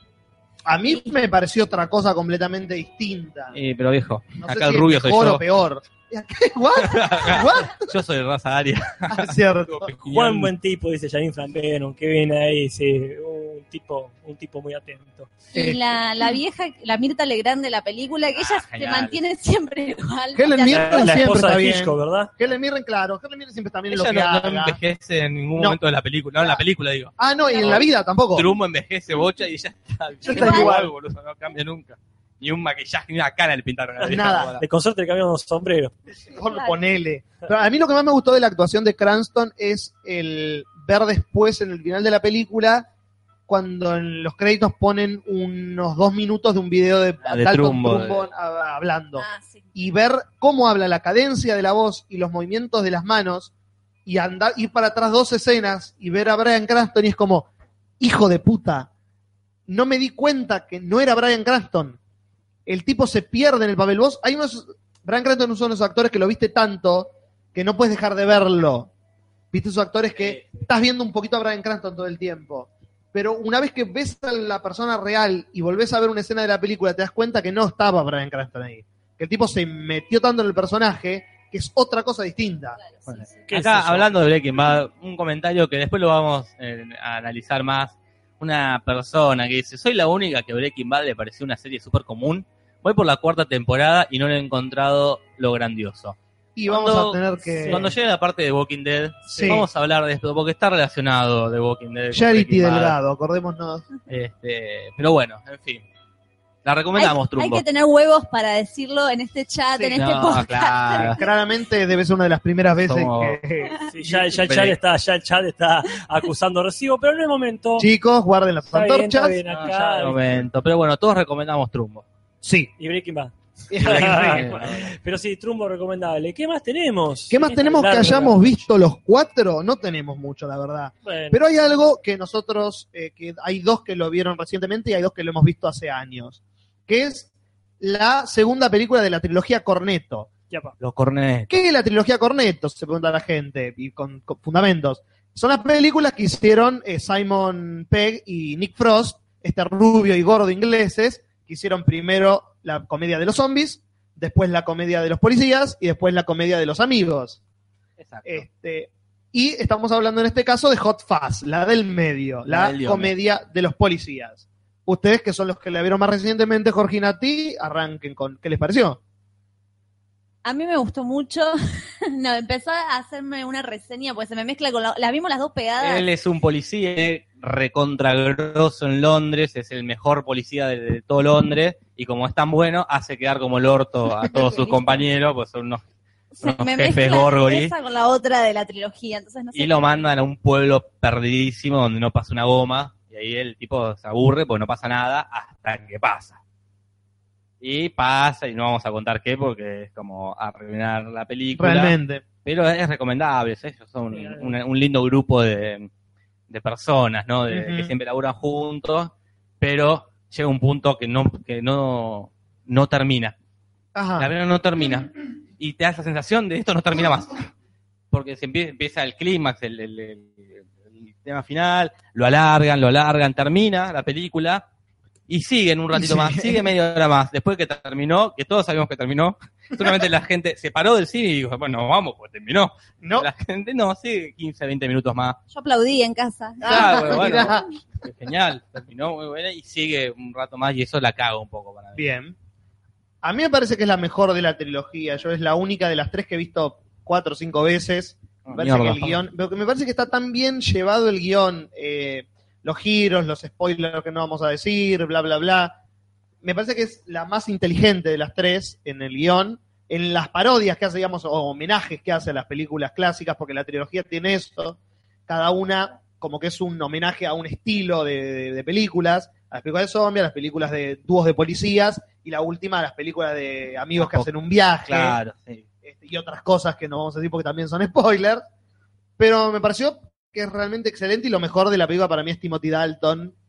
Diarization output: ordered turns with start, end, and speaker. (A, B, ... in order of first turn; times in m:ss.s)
0:00.7-0:03.6 A
0:03.5-0:05.4 B
0:04.4-0:07.9 A
0:06.8-0:10.5 B
0:09.1-0:09.9 A
0:10.1-0:15.3 C
0:15.5-0:21.2 D
0:18.4-0:19.2 B
0:20.4-0:24.8 A
0:20.7-0:22.3 C
0:23.9-0:34.6 B
0:27.2-0:28.5 A
0:30.2-0:30.9 A
0:30.3-0:30.7 D
0:34.0-0:35.9 C
0:34.0-0:34.5 A
0:36.1-0:42.9 A
0:36.5-0:36.8 D
0:43.5-0:49.2 A
0:47.2-0:48.2 B
0:49.2-0:49.7 D
0:49.8-0:53.5 A
0:54.1-0:57.5 A
0:58.0-0:58.9 A
0:59.7-1:02.0 A
1:02.7-1:08.9 A
1:09.5-1:22.8 A
1:10.2-1:10.4 B
1:22.9-1:23.3 D
1:23.1-1:43.0 B
1:23.5-1:24.1 C
1:36.6-1:37.9 A
1:37.6-1:37.9 C
1:39.3-1:39.7 A
1:42.1-1:43.9 A
1:44.1-1:45.8 B
1:46.6-1:47.6 B
1:47.0-1:51.2 D
1:50.0-1:51.2 B
1:51.1-1:54.2 A
1:52.9-1:53.4 B
1:53.8-1:57.9 C
1:54.4-1:54.8 B
1:57.8-1:59.4 A
1:58.7-2:00.2 C
1:59.5-2:02.0 B
2:02.4-2:02.7 A
2:02.8-2:08.7 C
2:03.7-2:04.5 A
2:03.8-2:04.9 B
2:07.3-2:17.3 A
2:11.0-2:11.4 C
2:17.8-2:20.3 A
2:20.5-2:20.7 C
2:20.8-2:21.5 B
2:21.5-2:37.4 A
2:38.0-2:38.5 B
2:38.2-2:49.0 A
2:42.5-2:43.1 B
2:50.4-2:51.6 D
2:52.1-2:56.1 D
2:55.8-3:05.8 B
3:04.2-3:04.8 A
3:06.3-3:10.0 D
3:06.4-3:07.7 B
3:09.6-3:16.4 B
3:17.6-3:25.9 B
3:21.6-3:22.2 A
3:24.1-3:24.6 C
3:26.5-3:33.4 B
3:27.5-3:27.9 A
3:34.0-3:34.3 A
3:34.2-3:37.5 B
3:38.1-3:44.6 B
3:45.3-3:55.4 B
3:46.0-3:46.6 A
3:53.0-3:53.3 A
3:55.5-3:57.6 D
3:56.6-3:57.7 A
3:56.6-4:02.0 B
4:02.0-4:02.4 A
4:03.2-4:15.8 A
4:08.4-4:09.2 B
4:16.4-4:24.8 A
4:25.3-4:35.2 A
4:34.0-4:34.3 B
4:34.9-4:35.6 B
4:35.8-4:38.4 A
4:39.2-4:43.3 A